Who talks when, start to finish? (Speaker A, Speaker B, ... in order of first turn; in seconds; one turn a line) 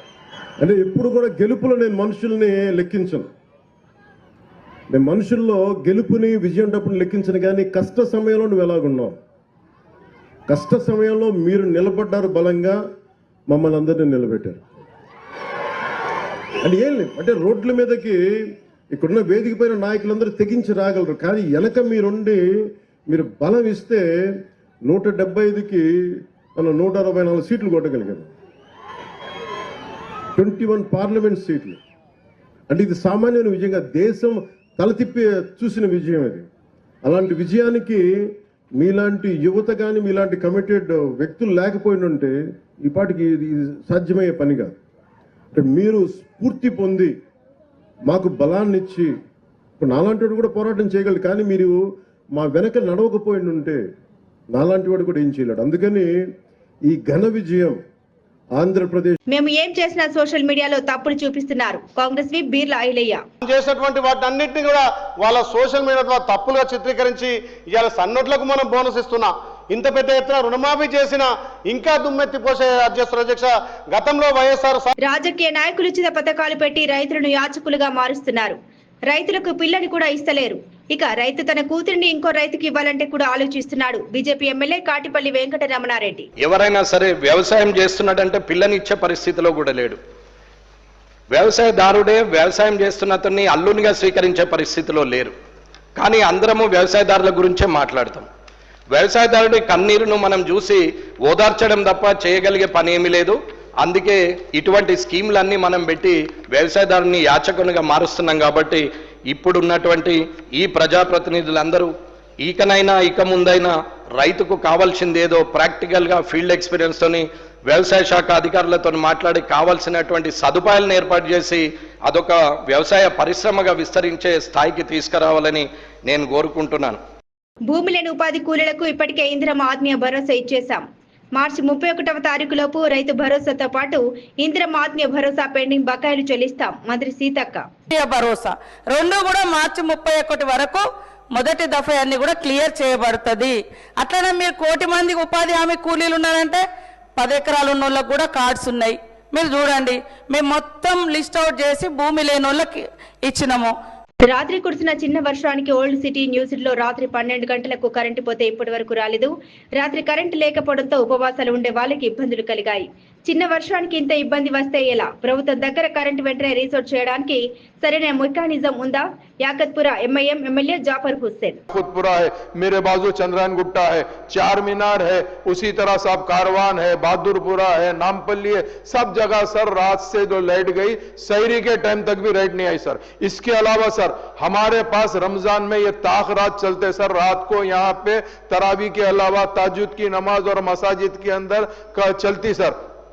Speaker A: 0.6-3.3
Speaker A: 4.9-9.2
Speaker A: 10.5-12.8
Speaker A: 13.5-14.6
Speaker A: 16.6-18.2
Speaker A: 18.9-22.4
Speaker A: 23.1-24.1
Speaker A: 24.9-28.3
Speaker A: 30.4-31.8
Speaker A: 32.7-36.5
Speaker A: 37.1-38.0
Speaker A: 38.8-42.3
Speaker A: 42.9-44.7
Speaker A: 45.6-47.1
Speaker A: 48.1-49.1
Speaker A: 49.8-51.8
Speaker A: 52.4-53.8
Speaker A: 54.5-56.1
Speaker A: 56.9-57.8
Speaker A: 58.6-59.2
Speaker B: 59.3-63.2
Speaker C: 63.4-74.9
Speaker B: 75.0-78.6
Speaker B: 79.1-86.3
Speaker D: 86.4-90.0
Speaker D: 91.3-95.3
Speaker D: 96.0-98.3
Speaker D: 98.9-111.9
Speaker D: 112.4-127.0
Speaker B: 127.7-130.8
Speaker B: 131.3-137.7
Speaker E: 137.9-146.7
Speaker E: 147.2-153.8
Speaker B: 154.2-171.6
Speaker F: 171.7-192.8